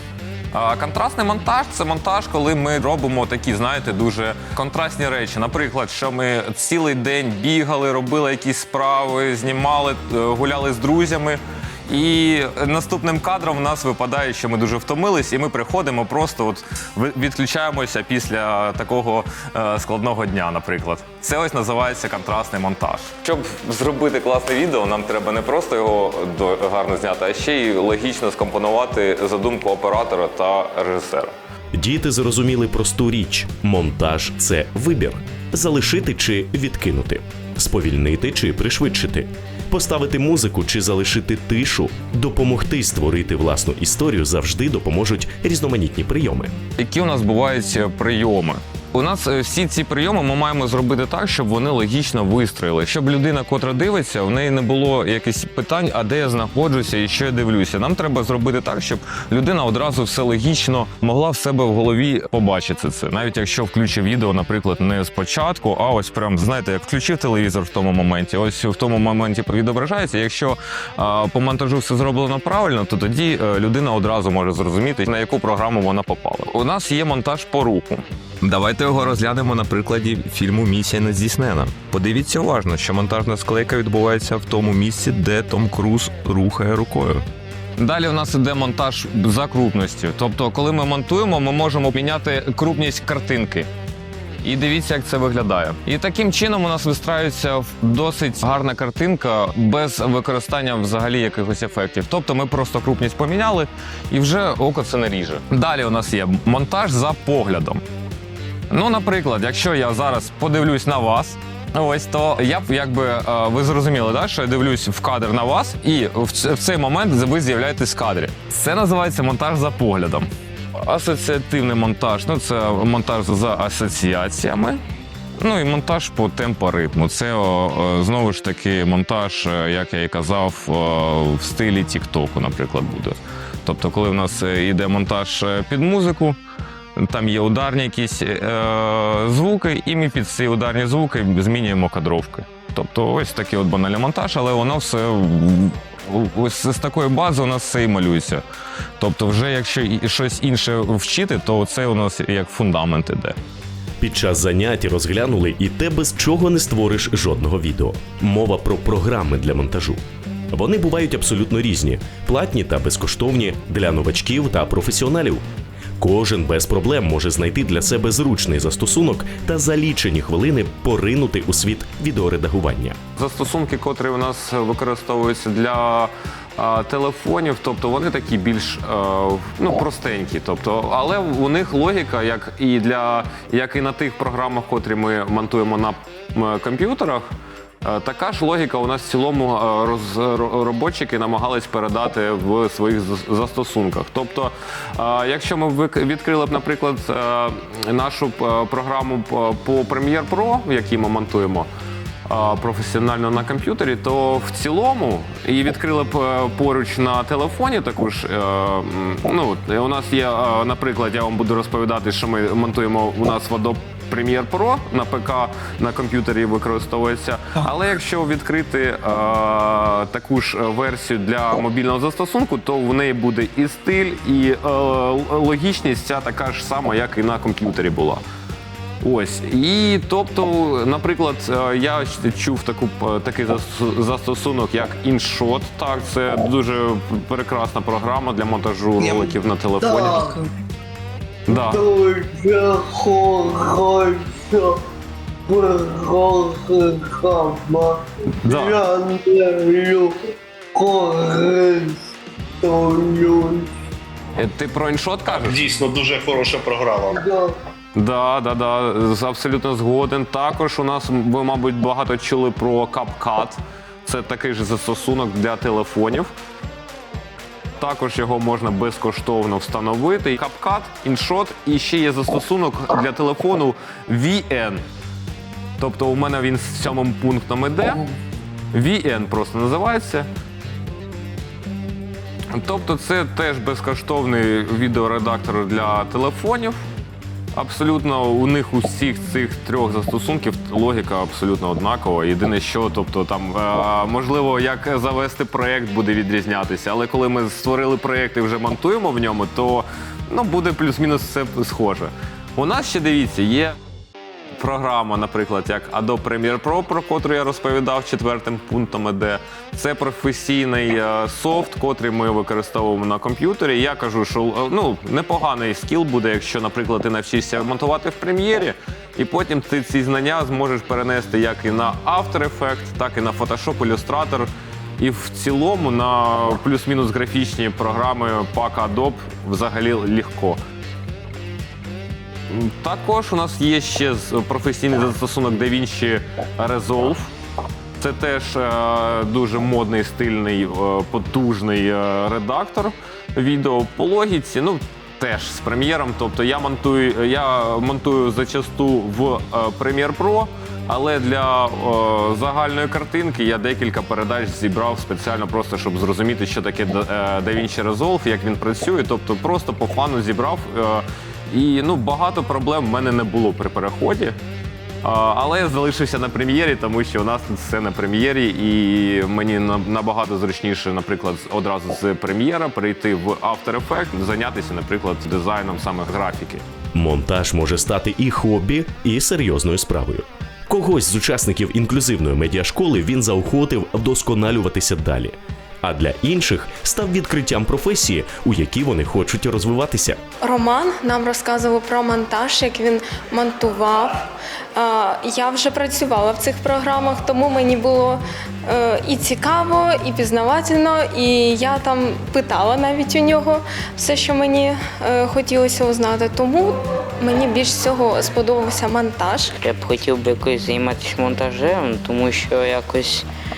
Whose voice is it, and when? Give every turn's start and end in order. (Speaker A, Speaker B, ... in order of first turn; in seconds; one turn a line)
Speaker A: 0.5-31.3
Speaker B: 31.7-46.5
Speaker A: 46.8-87.2
Speaker A: 87.8-93.7
Speaker A: 94.4-107.8
Speaker A: 108.7-124.8
Speaker A: 125.4-136.4
Speaker A: 137.0-148.4
Speaker A: 149.0-153.3
Speaker B: 154.0-160.0
Speaker B: 160.5-165.4
Speaker B: 166.0-173.0
Speaker A: 173.2-187.2
Speaker A: 187.8-201.7
Speaker A: 202.3-228.2
Speaker A: 229.0-240.2
Speaker C: 239.8-240.4
Speaker A: 241.5-241.8
Speaker C: 241.5-244.8
Speaker C: 245.5-250.1
Speaker A: 248.4-248.8
Speaker C: 250.7-252.0
Speaker C: 252.6-253.7
Speaker A: 254.4-255.7
Speaker D: 255.3-257.2
Speaker C: 257.1-257.5
Speaker A: 257.9-266.3
Speaker A: 267.8-274.8
Speaker A: 275.8-278.1
Speaker A: 278.7-280.3
Speaker A: 282.5-286.8
Speaker A: 287.6-303.8
Speaker A: 304.5-330.6
Speaker A: 332.5-337.3
Speaker A: 338.0-364.4
Speaker A: 365.0-376.6
Speaker B: 376.9-390.2
Speaker E: 390.4-394.1
Speaker E: 394.8-409.4
Speaker F: 409.6-413.3